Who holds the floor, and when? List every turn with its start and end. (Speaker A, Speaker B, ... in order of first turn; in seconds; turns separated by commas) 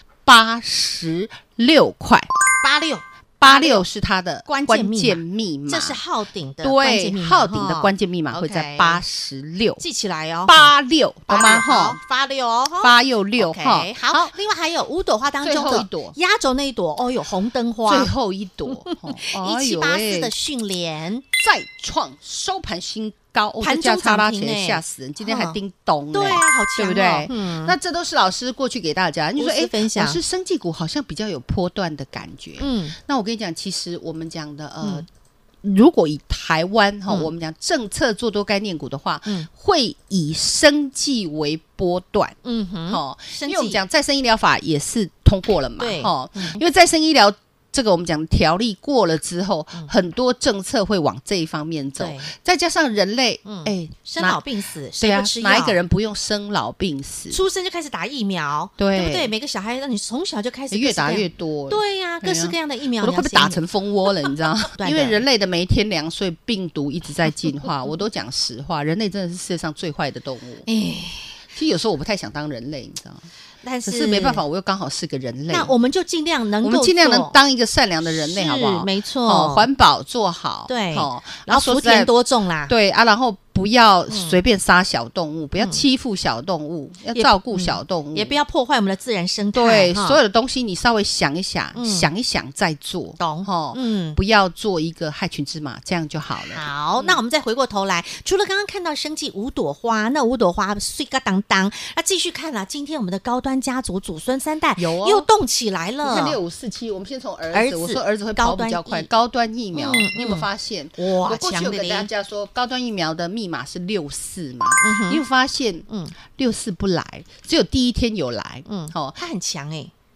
Speaker A: 0.3-2.3, Speaker B: 2.6-3.9, Speaker A: 3.4-6.0, Speaker B: 4.5-9.0, Speaker A: 6.6-9.8, Speaker B: 9.8-10.7, Speaker A: 10.5-12.0, Speaker B: 11.3-18.1, Speaker A: 12.8-14.3, Speaker A: 15.4-16.2, Speaker A: 17.9-20.3, Speaker B: 18.7-21.2, Speaker A: 21.4-35.1, Speaker B: 23.6-25.6, Speaker B: 26.1-27.8, Speaker B: 29.4-30.2, Speaker B: 32.6-33.0, Speaker A: 35.6-42.4, Speaker B: 42.4-43.8, Speaker A: 42.9-54.4, Speaker B: 45.8-46.6, Speaker B: 52.0-52.3, Speaker B: 53.5-55.8, Speaker A: 55.0-57.4, Speaker B: 57.3-63.6, Speaker A: 58.8-59.3, Speaker A: 60.7-70.7, Speaker B: 64.7-65.2, Speaker B: 70.7-71.4, Speaker A: 71.5-73.3, Speaker B: 73.6-74.4, Speaker A: 73.8-75.7, Speaker B: 75.5-77.3, Speaker A: 76.6-82.1, Speaker B: 78.1-79.7, Speaker B: 80.7-82.7, Speaker A: 82.7-88.4, Speaker B: 84.1-84.4, Speaker B: 87.2-90.2, Speaker A: 89.5-97.2, Speaker B: 91.8-92.1, Speaker B: 93.2-94.2, Speaker B: 96.5-106.4, Speaker A: 104.8-105.3, Speaker A: 106.0-119.2, Speaker B: 107.5-109.1, Speaker B: 109.7-112.1, Speaker B: 114.8-115.2, Speaker B: 115.9-116.1, Speaker B: 118.7-119.9